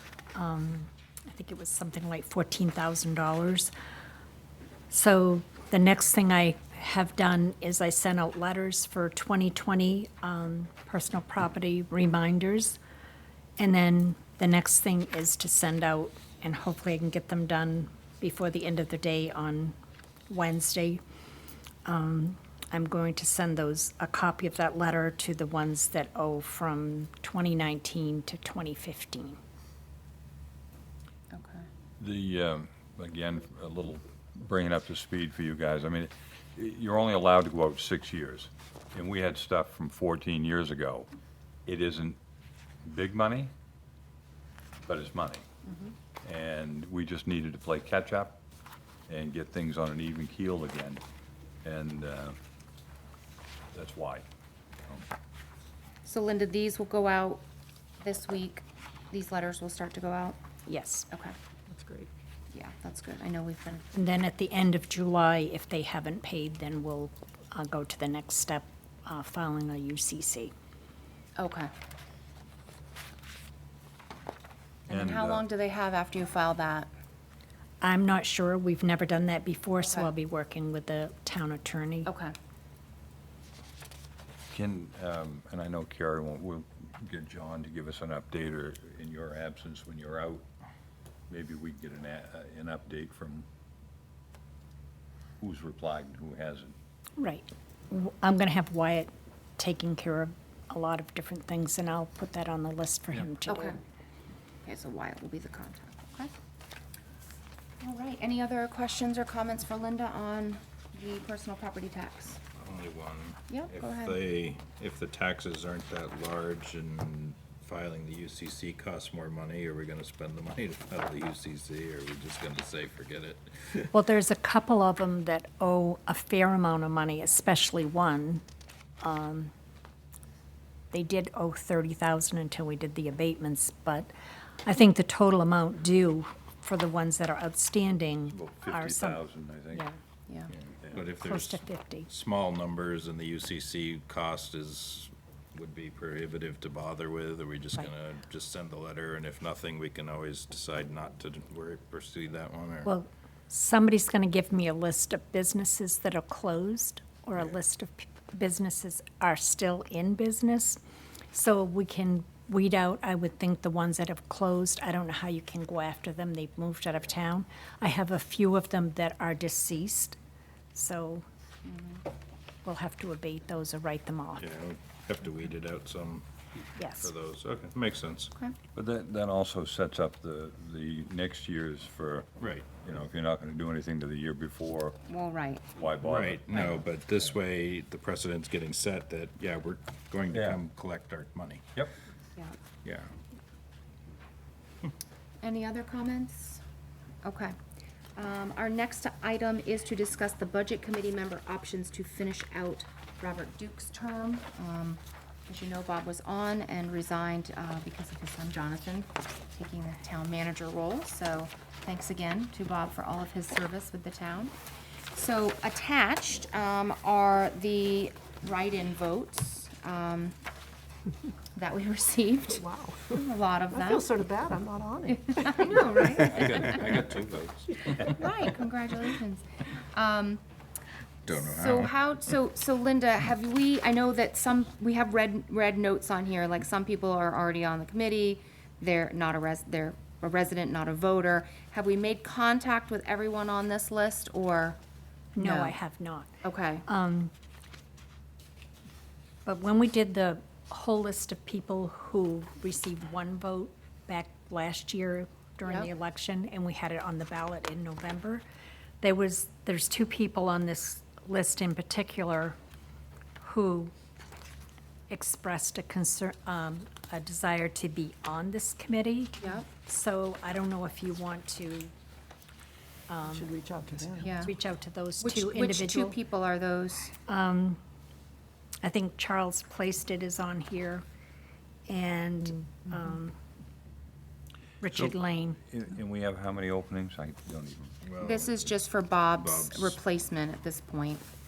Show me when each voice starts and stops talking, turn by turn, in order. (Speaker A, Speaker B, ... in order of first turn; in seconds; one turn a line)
Speaker A: 0.3-3.7
Speaker A: 4.9-12.8
Speaker A: 13.6-19.7
Speaker A: 20.3-21.0
Speaker A: 21.8-29.4
Speaker B: 31.3-31.6
Speaker C: 32.0-41.1
Speaker C: 41.6-42.2
Speaker C: 42.8-43.5
Speaker C: 44.8-45.4
Speaker C: 46.2-48.4
Speaker C: 49.1-51.0
Speaker C: 51.6-52.4
Speaker C: 53.7-54.2
Speaker B: 56.0-57.4
Speaker B: 58.0-60.4
Speaker A: 60.7-61.1
Speaker B: 61.1-61.3
Speaker D: 61.7-62.1
Speaker B: 62.5-63.8
Speaker A: 63.9-70.5
Speaker B: 71.4-71.7
Speaker B: 74.9-76.9
Speaker C: 74.9-75.5
Speaker A: 77.8-82.1
Speaker B: 79.8-80.1
Speaker B: 82.0-82.3
Speaker C: 84.5-90.5
Speaker C: 91.3-93.5
Speaker C: 95.4-96.7
Speaker A: 97.2-103.8
Speaker B: 103.5-103.8
Speaker B: 104.6-106.3
Speaker B: 107.8-112.4
Speaker E: 112.5-123.9
Speaker B: 113.5-114.2
Speaker A: 123.9-128.4
Speaker A: 129.0-129.5
Speaker A: 130.9-134.1
Speaker A: 134.6-139.2
Speaker C: 138.3-139.9
Speaker E: 140.9-152.9
Speaker A: 141.0-142.1
Speaker A: 152.8-160.8
Speaker A: 161.3-170.2
Speaker A: 170.7-171.2
Speaker B: 171.6-172.0
Speaker A: 172.6-174.4
Speaker E: 174.4-176.2
Speaker A: 176.8-177.1
Speaker E: 176.9-178.3
Speaker C: 178.7-185.0
Speaker E: 182.4-182.7
Speaker B: 185.1-185.7
Speaker C: 185.8-186.8
Speaker E: 186.0-191.6
Speaker C: 190.3-190.6
Speaker E: 192.8-193.1
Speaker B: 195.4-196.6
Speaker B: 197.2-197.5
Speaker B: 198.2-214.5
Speaker B: 215.1-220.3
Speaker B: 221.6-224.1
Speaker D: 222.6-225.8
Speaker B: 225.2-226.8
Speaker C: 226.1-228.2
Speaker E: 226.3-226.7
Speaker B: 228.0-230.4
Speaker E: 231.2-231.9
Speaker B: 231.3-244.8
Speaker A: 245.3-246.3
Speaker B: 245.4-245.8
Speaker B: 246.4-246.8
Speaker A: 246.8-247.3
Speaker A: 249.4-258.4
Speaker A: 259.0-262.6
Speaker A: 263.4-263.9
Speaker A: 265.1-271.9
Speaker B: 269.4-269.6
Speaker A: 273.1-273.5
Speaker D: 273.3-274.3
Speaker B: 274.2-274.5
Speaker A: 274.4-276.2
Speaker B: 275.2-277.1
Speaker A: 277.3-277.8
Speaker A: 278.8-281.0
Speaker A: 281.9-283.4
Speaker A: 284.8-285.6
Speaker C: 284.9-287.9
Speaker E: 288.0-288.8
Speaker B: 288.2-291.2
Speaker E: 289.4-290.0